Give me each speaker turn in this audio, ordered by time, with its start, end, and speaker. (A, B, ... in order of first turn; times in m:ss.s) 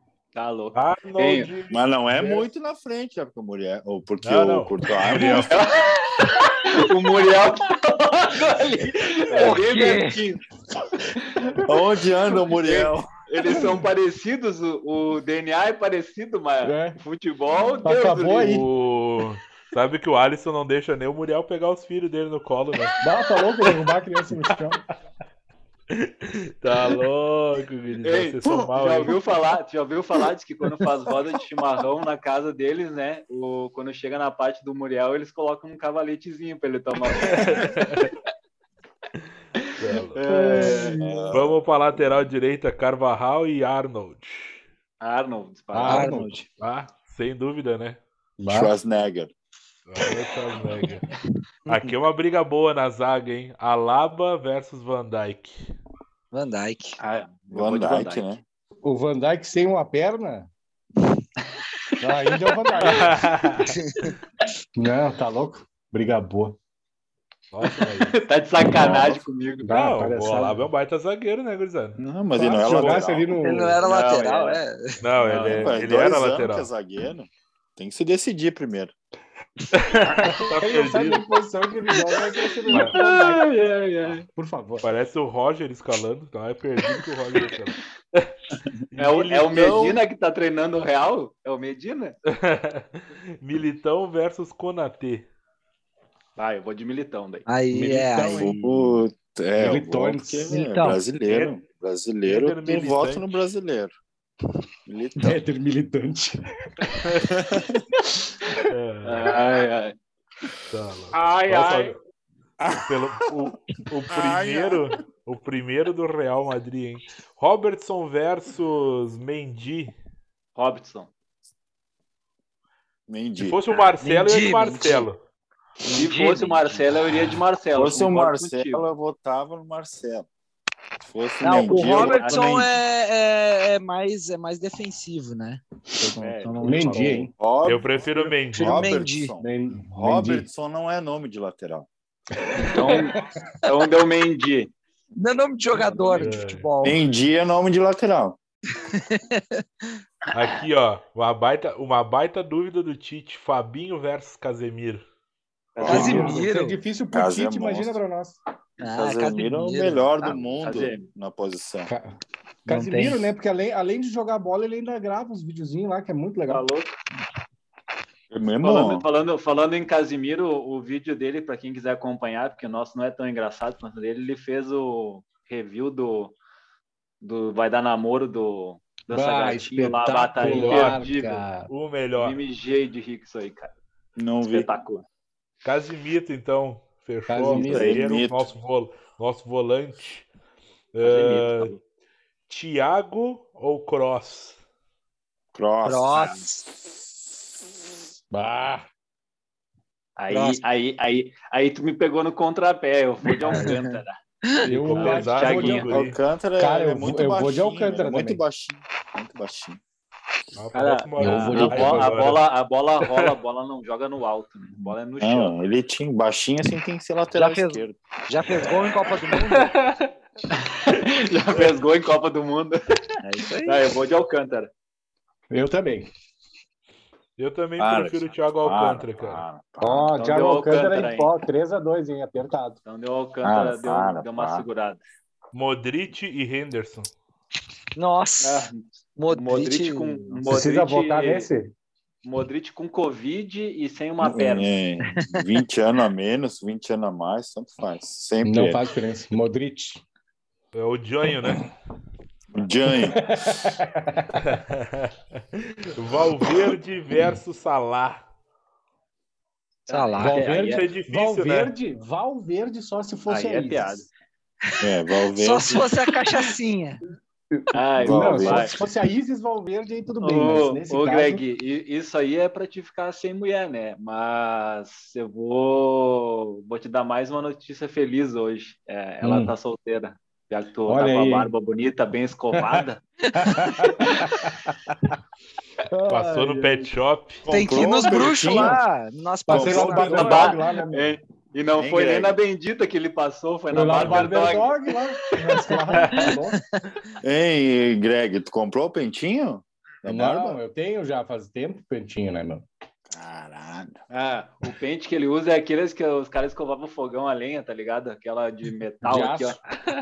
0:00.3-0:01.5 A
0:00.7-0:02.4 B
0:01.7-0:05.5 C
0:04.2-0:05.6 B
0:05.5-0:10.4 A
0:09.3-0:10.2 D
0:09.3-0:09.6 B
0:11.2-0:11.6 A
0:11.6-0:13.1 C
0:12.6-0:18.6 A
0:16.6-0:17.0 E
0:17.8-0:18.7 E
0:18.4-0:23.0 B
0:23.0-0:24.8 E
0:25.9-0:29.2 B
0:28.0-0:37.6 A
0:37.2-0:38.1 B
0:39.8-0:40.2 B
0:40.1-0:41.0 A
0:40.3-0:41.2 E
0:41.0-0:41.6 C
0:41.3-0:44.6 B
0:45.0-0:46.1 A
0:45.7-0:46.4 E
0:45.8-0:46.5 D
0:46.6-0:48.0 B
0:48.4-0:48.7 E
0:48.5-0:49.3 C
0:49.9-0:51.1 B
0:51.7-0:51.9 D
0:51.7-0:55.5 B
0:56.3-0:57.0 D
0:57.0-0:58.3 A
0:57.5-0:58.4 C
0:58.8-1:00.5 E
1:02.0-1:03.3 E
1:02.8-1:03.7 B
1:03.7-1:04.1 D
1:04.8-1:06.6 E
1:07.5-1:08.2 B
1:08.0-1:09.7 A
1:08.6-1:09.2 C
1:09.6-1:10.7 E
1:09.7-1:12.0 B
1:12.0-1:13.4 C
1:12.3-1:13.8 E
1:12.6-1:13.0 B
1:13.4-1:15.0 D
1:13.8-1:14.6 A
1:15.0-1:16.7 B
1:15.2-1:15.7 A
1:15.4-1:18.9 C
1:19.7-1:21.2 B
1:20.2-1:23.5 E
1:22.7-1:24.2 A
1:24.3-1:24.9 E
1:24.8-1:28.3 B
1:28.9-1:30.0 B
1:29.0-1:32.1 A
1:32.3-1:35.3 B
1:36.4-1:37.4 A
1:37.5-1:38.5 D
1:37.7-1:39.0 E
1:38.3-1:43.9 C
1:39.6-1:40.5 E
1:40.5-1:41.0 D
1:41.2-1:41.5 B
1:42.2-1:43.3 B
1:44.9-1:45.4 C
1:45.2-1:46.4 E
1:47.2-1:47.8 C
1:48.7-1:49.3 B
1:49.0-1:50.0 A
1:50.7-1:52.0 B
1:51.1-1:51.9 A
1:52.6-1:53.5 C
1:52.8-1:59.9 B
1:54.1-1:55.0 C
2:00.6-2:01.1 A
2:03.1-2:03.8 C
2:03.4-2:05.2 B
2:04.0-2:05.1 D
2:05.8-2:07.4 D
2:05.9-2:08.8 A
2:07.7-2:10.3 C
2:11.0-2:12.8 C
2:11.4-2:17.3 D
2:11.6-2:12.6 A
2:16.2-2:17.2 A
2:16.6-2:17.3 E
2:16.8-2:21.9 C
2:17.6-2:19.0 B
2:18.5-2:19.3 D
2:19.4-2:20.5 E
2:22.6-2:24.7 A
2:25.2-2:27.0 D
2:26.1-2:26.7 B
2:26.8-2:28.4 C
2:28.9-2:29.9 D
2:30.3-2:35.0 B
2:35.8-2:36.2 A
2:35.8-2:36.4 C
2:35.8-2:36.8 D
2:35.8-2:38.4 E
2:37.1-2:38.0 C
2:38.8-2:40.6 D
2:38.8-2:41.9 C
2:40.6-2:41.0 A
2:41.8-2:46.6 E
2:42.7-2:43.3 D
2:46.5-2:46.9 A
2:48.3-2:49.0 C
2:48.6-2:56.3 A
2:57.2-3:01.4 A
2:59.1-3:01.7 E
3:00.4-3:01.0 B
3:01.7-3:02.4 B
3:02.2-3:03.7 A
3:04.2-3:04.7 C
3:04.4-3:05.0 A
3:05.6-3:10.3 B
3:07.3-3:08.1 E
3:07.5-3:08.5 C
3:10.9-3:11.7 B
3:11.0-3:11.8 A
3:12.5-3:14.6 B
3:15.5-3:16.9 C
3:15.8-3:16.6 D
3:18.3-3:18.9 E
3:20.2-3:24.2 A
3:20.3-3:20.6 E
3:23.5-3:23.7 E
3:23.5-3:23.7 D
3:24.6-3:26.0 E
3:24.6-3:26.2 B
3:25.0-3:26.0 A
3:25.8-3:29.8 C
3:26.6-3:28.4 E
3:30.6-3:32.4 B
3:30.7-3:35.6 A
3:31.2-3:32.1 E
3:34.8-3:39.0 C
3:37.3-3:39.8 D
3:39.5-3:40.0 B
3:40.5-3:42.8 A
3:43.3-3:43.8 D
3:43.6-3:44.7 A
3:45.5-3:46.1 E
3:47.4-3:49.4 B
3:47.8-3:50.1 C
3:49.8-3:52.8 E
3:50.2-3:51.3 A
3:52.8-3:55.0 A
3:53.4-3:54.6 C
3:55.5-3:57.1 B
3:58.0-4:00.4 D
3:58.4-4:01.5 A
4:00.5-4:01.7 E
4:02.2-4:04.7 A
4:04.2-4:08.8 C
4:05.1-4:05.4 D
4:08.4-4:10.0 E
4:10.7-4:11.7 B
4:12.5-4:13.6 C
4:12.9-4:14.5 E
4:14.5-4:15.1 B
4:15.9-4:18.2 B
4:19.9-4:20.8 A
4:19.9-4:20.5 D
4:20.2-4:24.0 E
4:20.6-4:21.7 B
4:23.3-4:24.1 A
4:24.8-4:26.0 C
4:25.4-4:27.0 D
4:27.5-4:31.4 E
4:27.7-4:28.7 A
4:28.0-4:28.8 C
4:30.2-4:43.0 A
4:39.2-4:39.5 E
4:40.9-4:41.5 E
4:43.3-4:44.9 E
4:45.9-4:46.9 E
4:46.1-4:47.4 B
4:47.4-4:48.8 C
4:47.5-4:50.5 D
4:49.4-4:50.4 C
4:49.5-4:51.2 E
4:50.1-4:54.8 A
4:51.8-4:52.4 C
4:53.7-4:56.6 E
4:56.0-4:56.3 B
4:57.2-5:00.6 C
5:00.0-5:02.6 E
5:03.1-5:04.0 C
5:04.1-5:09.6 A
5:09.0-5:09.6 E